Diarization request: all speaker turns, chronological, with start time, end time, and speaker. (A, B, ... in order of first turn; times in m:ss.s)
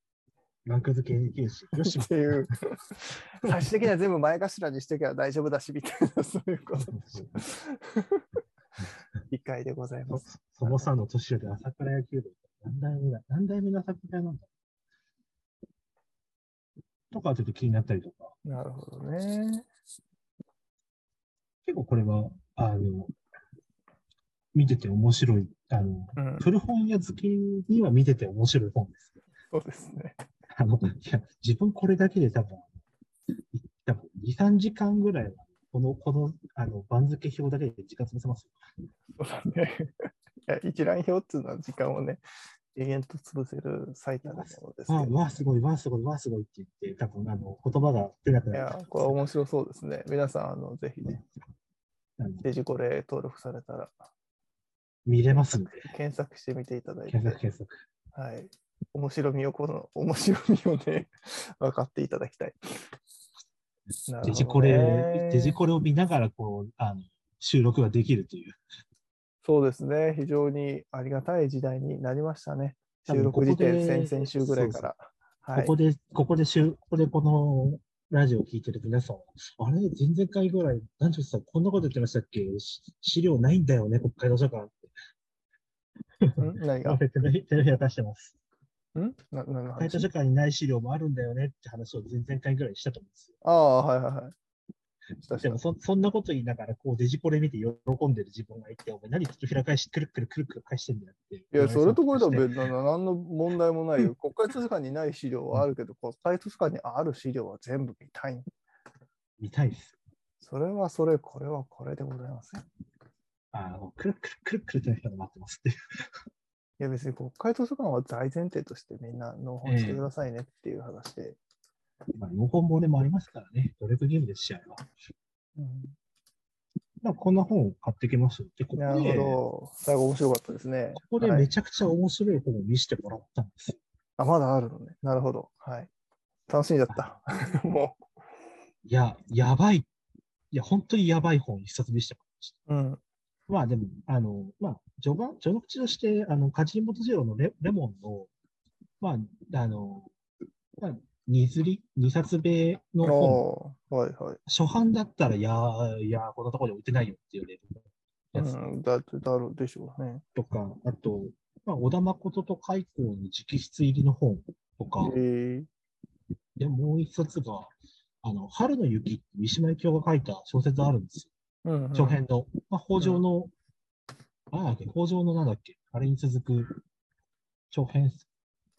0:00.6-0:02.5 A
0:01.8-0:08.3 B
0:06.8-0:07.4 A
0:09.3-0:10.9 B
0:10.1-0:14.5 A
0:17.1-0:18.4 A
0:18.4-0:19.7 B
0:21.6-0:23.1 A
0:24.5-0:29.1 A
0:26.2-0:26.5 B
0:29.5-0:30.2 B
0:30.5-0:32.7 A
0:33.5-0:38.5 A
0:39.2-0:39.9 B
0:40.5-0:42.2 B
0:42.7-0:45.4 B
0:44.2-0:49.2 A
0:48.5-0:51.2 B
0:52.2-0:52.4 A
0:52.4-0:53.9 B
0:55.1-0:55.9 A
0:55.3-0:57.4 B
0:57.1-0:57.8 A
0:58.1-1:02.9 B
1:04.1-1:05.6 B
1:04.2-1:08.6 A
1:09.4-1:15.7 B
1:13.0-1:14.9 A
1:15.5-1:24.8 A
1:26.2-1:28.4 A
1:26.4-1:27.0 B
1:29.0-1:30.1 B
1:29.8-1:33.3 A
1:33.4-1:34.4 B
1:35.2-1:35.6 B
1:35.4-1:42.5 A
1:41.5-1:48.5 B
1:49.4-1:50.0 A
1:50.4-1:52.6 B
1:53.5-1:55.7 A
1:56.8-2:01.4 B
1:59.6-2:00.1 A
2:02.2-2:04.9 A
2:05.6-2:05.9 B
2:07.0-2:09.4 A
2:08.8-2:11.5 B
2:11.0-2:13.8 A
2:14.2-2:15.9 B
2:16.5-2:18.0 B
2:16.9-2:17.5 A
2:18.8-2:19.9 A
2:20.5-2:22.6 A
2:22.7-2:23.0 B
2:23.5-2:28.3 A
2:29.0-2:30.1 A
2:30.8-2:33.4 A
2:33.0-2:34.4 B
2:34.5-2:38.6 A
2:38.4-2:40.2 B
2:40.4-2:45.2 A
2:45.0-2:45.7 B
2:46.6-2:47.7 A
2:48.2-2:51.3 A
2:51.6-2:52.2 B
2:52.0-2:53.5 A
2:53.0-2:53.2 B
2:54.5-2:56.8 A
2:57.7-2:58.3 A